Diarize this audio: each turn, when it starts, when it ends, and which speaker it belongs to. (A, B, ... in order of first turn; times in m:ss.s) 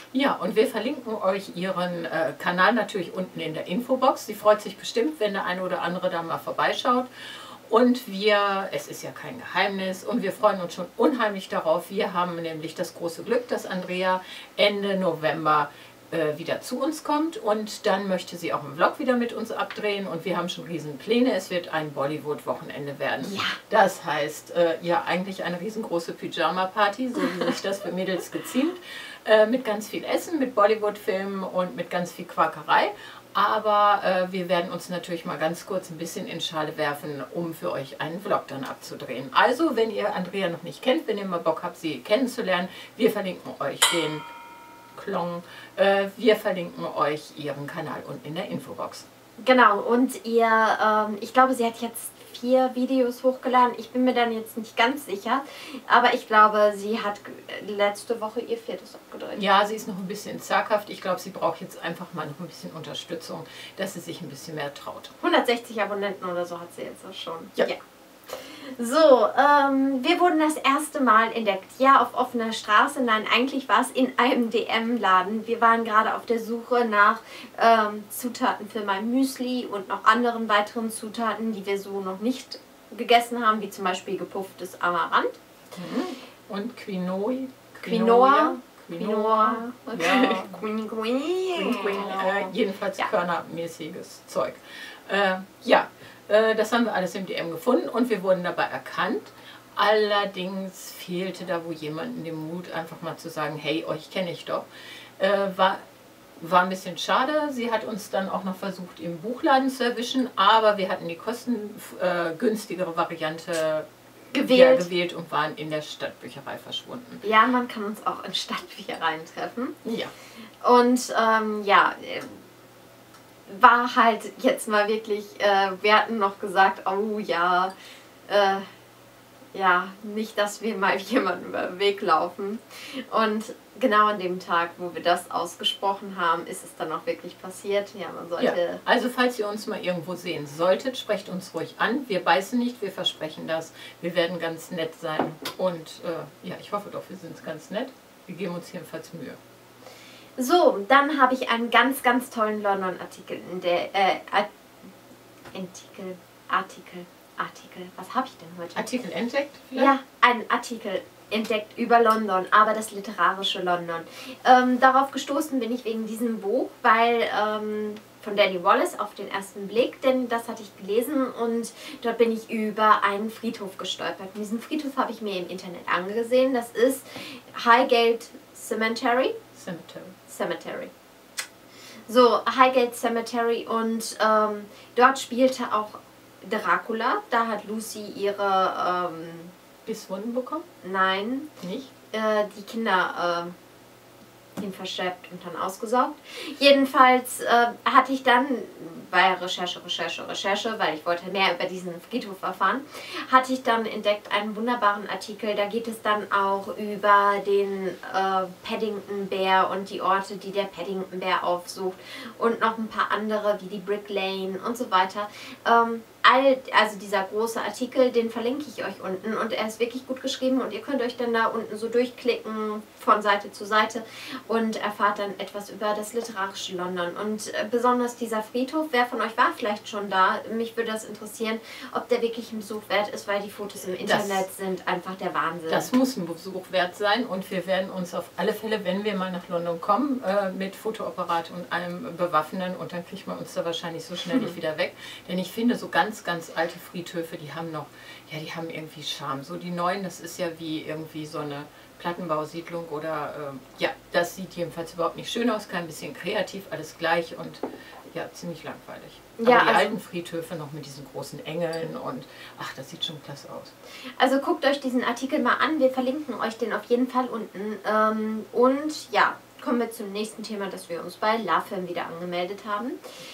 0:00.1-0:07.1 A
0:07.6-0:44.2 A
0:23.2-0:23.6 B
0:44.9-0:49.0 A
0:49.4-0:59.4 B
0:59.4-1:05.1 A
1:05.2-1:25.3 B
1:25.7-1:30.6 A
1:27.8-1:33.1 B
1:31.5-1:44.6 A
1:45.2-1:45.8 A
1:46.4-1:53.9 A
1:54.3-1:54.9 B
1:54.5-1:57.2 A
1:57.2-1:59.7 B
1:59.8-2:00.1 A
2:00.6-2:02.4 B
2:03.5-2:07.7 B
2:08.3-2:08.7 B
2:09.5-2:18.8 B
2:18.4-2:29.4 A
2:30.4-2:34.5 B
2:35.5-2:38.9 B
2:38.7-2:39.9 A
2:39.8-2:59.4 B
2:59.5-3:00.1 A
3:00.3-3:00.9 B
3:02.1-3:09.5 B
3:09.8-3:10.6 A
3:10.8-3:11.5 B
3:11.6-3:11.9 A
3:12.1-3:13.5 B
3:14.6-3:55.9 B
3:54.0-3:54.4 A
3:55.7-4:23.7 A
4:19.4-4:19.9 B
4:24.2-4:33.0 B